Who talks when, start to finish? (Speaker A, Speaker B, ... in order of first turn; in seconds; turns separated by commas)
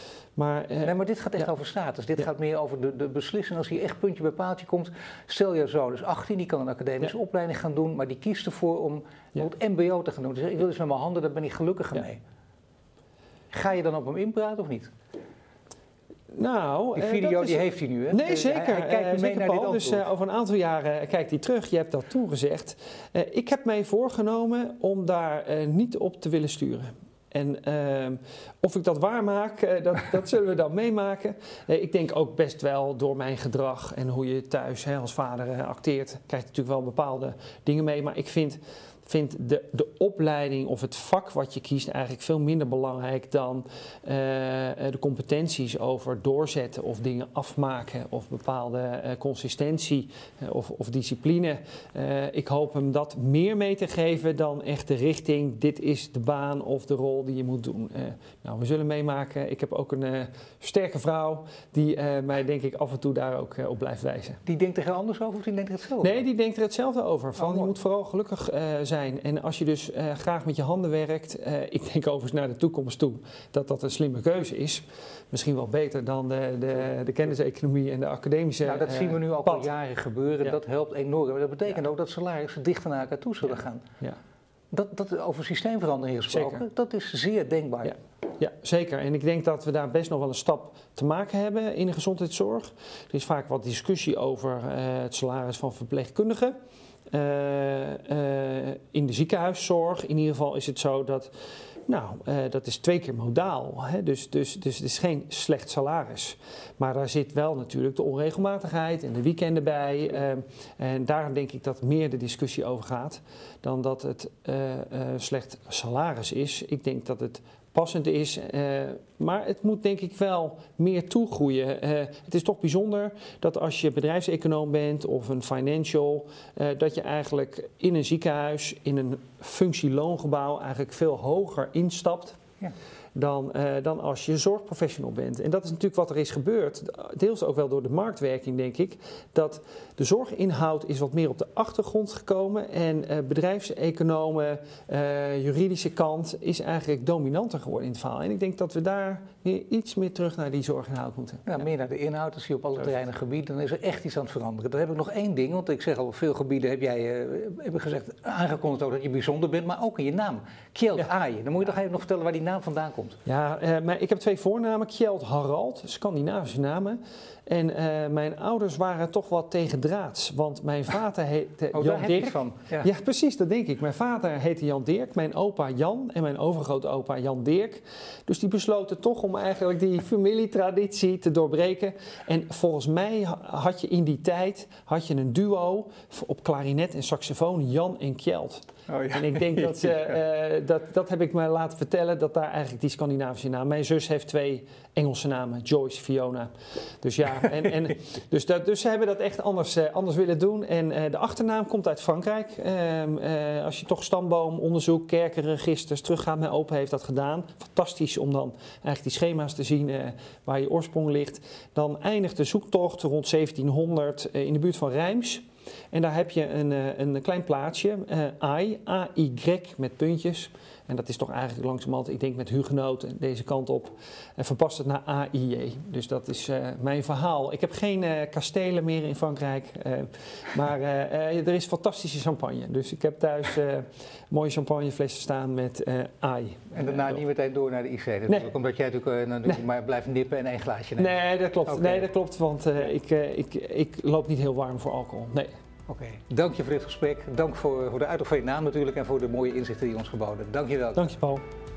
Speaker A: 0.4-0.9, Speaker B: 0.8-12.2, Speaker B: 13.5-14.9, Speaker A: 16.3-64.4, Speaker B: 17.0-20.1, Speaker B: 64.5-66.2, Speaker A: 66.0-79.7, Speaker B: 67.4-67.7, Speaker B: 78.7-83.8, Speaker B: 84.7-88.0, Speaker A: 86.3-86.6, Speaker A: 87.9-96.5, Speaker A: 97.1-101.3, Speaker A: 101.9-132.4, Speaker A: 133.2-151.6, Speaker B: 151.5-163.2, Speaker A: 163.3-237.2, Speaker B: 171.7-172.9, Speaker B: 188.9-190.2, Speaker B: 236.7-241.2, Speaker A: 241.0-245.5, Speaker B: 241.7-242.1, Speaker B: 245.9-251.0, Speaker A: 250.9-251.4